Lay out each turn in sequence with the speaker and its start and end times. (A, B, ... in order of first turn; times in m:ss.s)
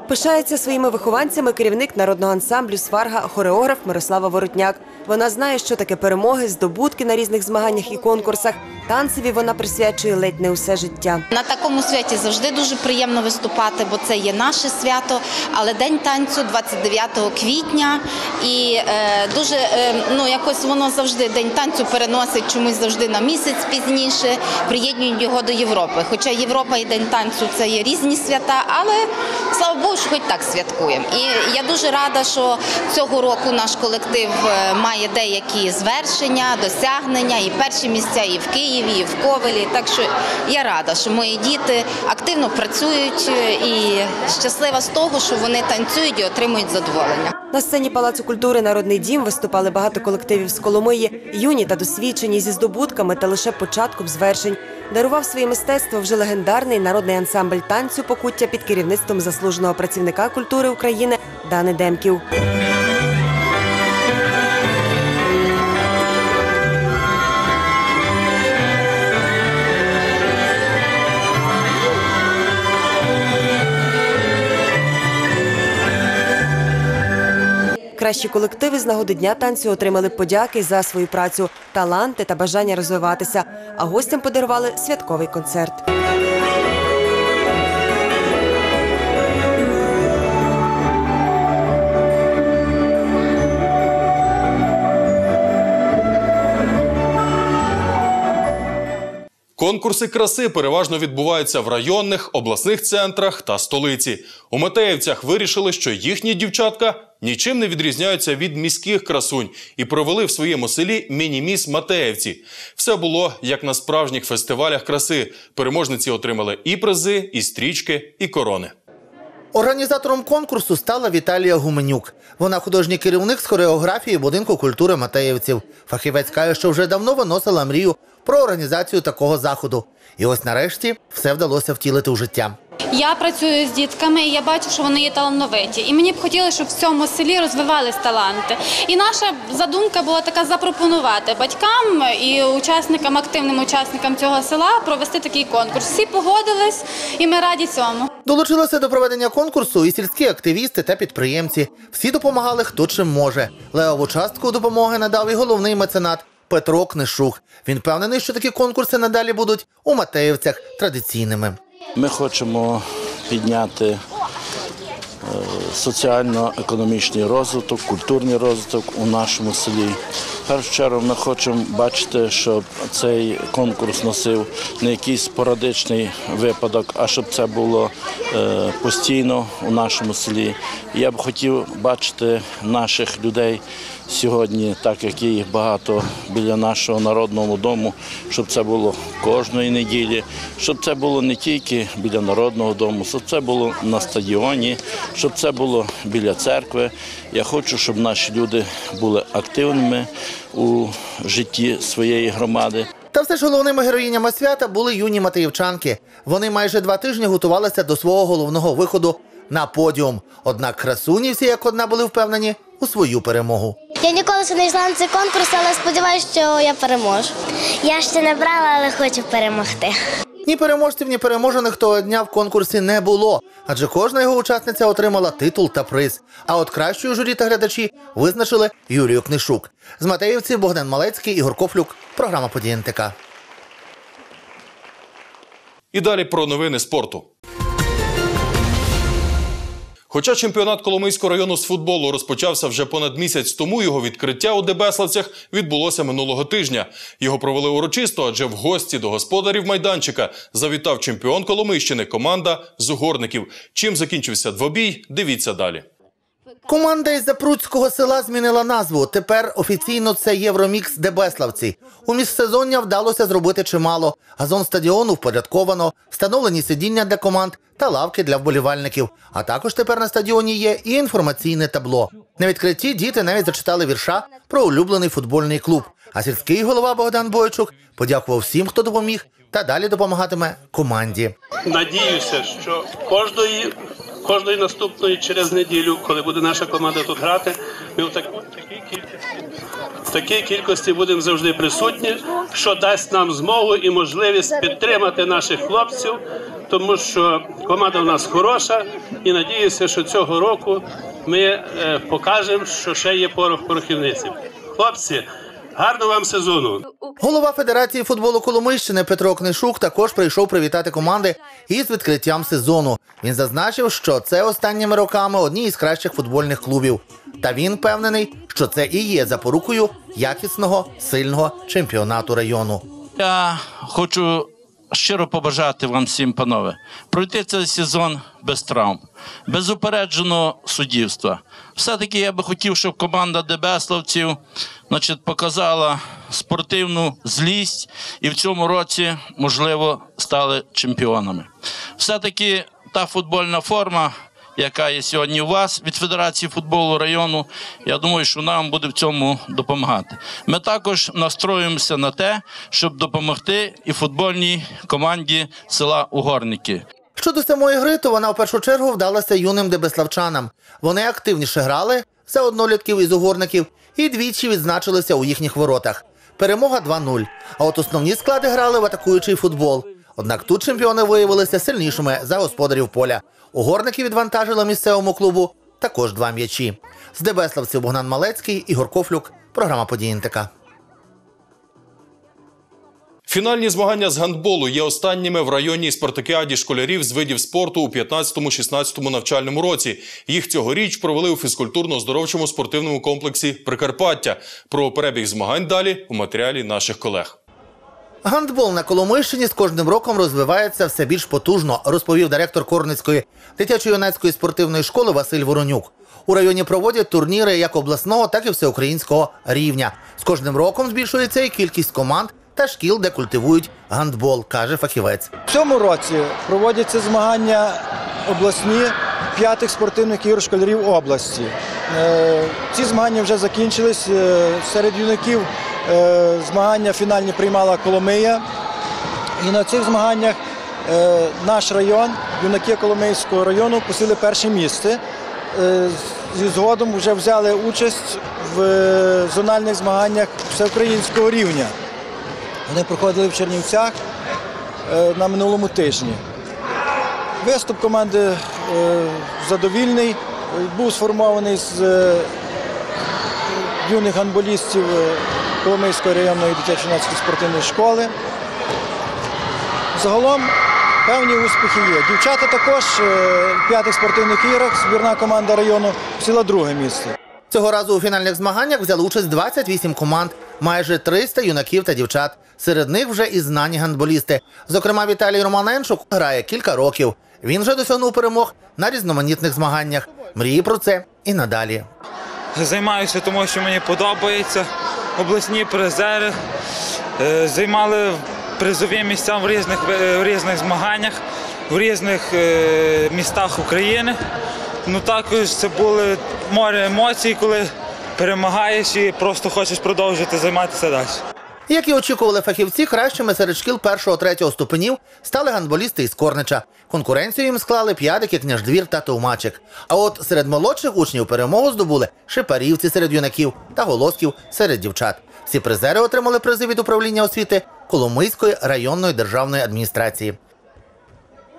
0:00.1-0:11.2 A
0:11.3-0:47.3 B
0:47.5-1:02.2 A
1:18.0-1:25.8 A
1:39.6-1:58.7 C
1:59.5-2:12.6 D
2:12.9-2:28.1 E
2:28.2-2:41.6 D
2:42.0-2:44.0 F
2:45.2-3:22.9 F
3:23.1-3:33.8 D
3:34.0-3:37.3 G
3:37.8-3:39.9 G
3:40.5-3:53.2 D
3:55.9-3:57.3 C
4:00.1-4:15.8 C
4:16.7-4:41.3 D
4:41.7-4:49.1 H
4:50.1-5:06.8 H
5:07.2-5:22.8 D
5:23.2-5:34.4 F
5:34.9-5:56.8 F
5:57.2-6:20.5 D
6:23.3-6:37.4 C
6:38.2-6:55.3 D
6:55.5-7:08.4 I
7:09.4-7:15.0 I
7:15.5-7:21.8 I
7:22.7-7:24.0 I
7:24.9-7:26.2 I
7:27.4-7:32.3 I
7:33.8-7:38.1 I
7:39.9-7:40.5 I
7:41.0-7:47.2 I
7:47.5-8:01.9 D
8:02.6-8:06.3 J
8:07.2-8:14.2 J
8:14.8-8:21.2 J
8:21.7-8:40.4 D